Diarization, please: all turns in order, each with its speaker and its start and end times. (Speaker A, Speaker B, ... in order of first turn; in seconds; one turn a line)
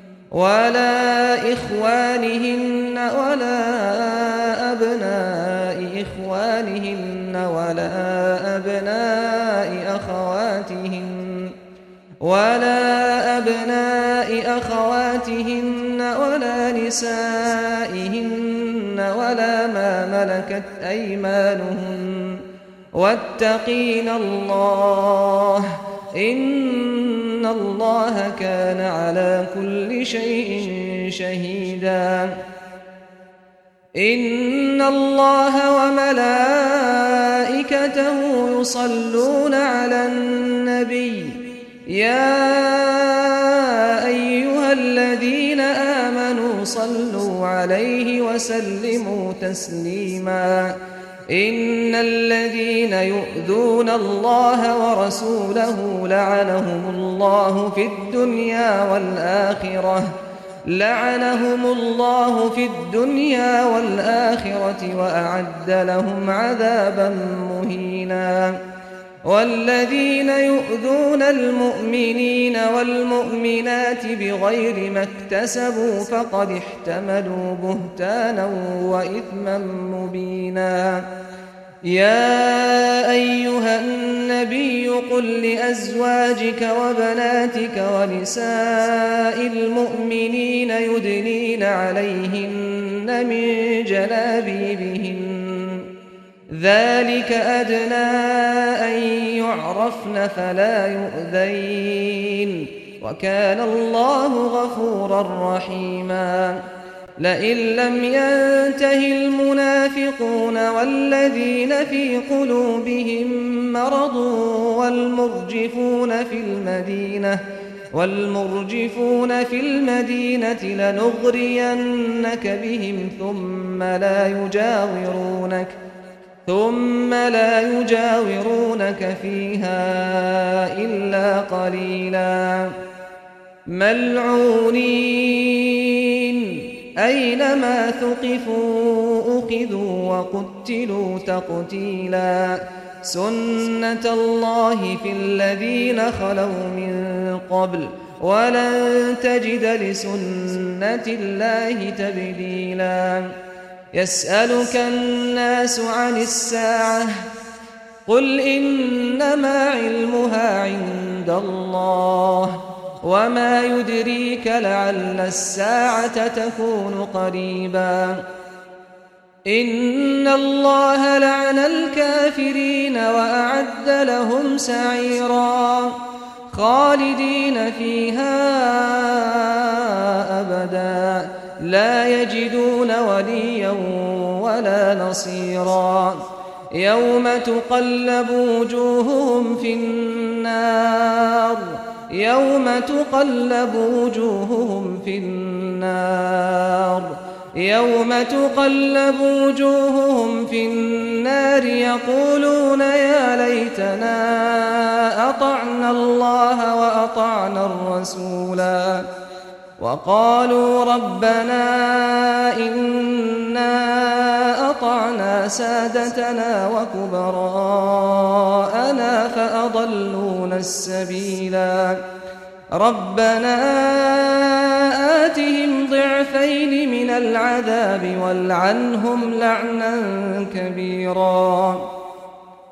Speaker A: 0.3-11.5
Speaker A: 12.2-32.4
Speaker A: 34.0-50.8
Speaker A: 51.3-60.1
Speaker A: 60.6-68.6
Speaker A: 69.2-81.1
Speaker A: 81.9-95.9
Speaker A: 96.5-106.6
Speaker A: 107.2-125.8
Speaker A: 126.5-132.8
Speaker A: 133.7-153.3
Speaker A: 153.9-157.2
Speaker A: 158.1-168.2
Speaker A: 169.5-209.1
Speaker A: 209.8-222.0
Speaker A: 222.8-231.9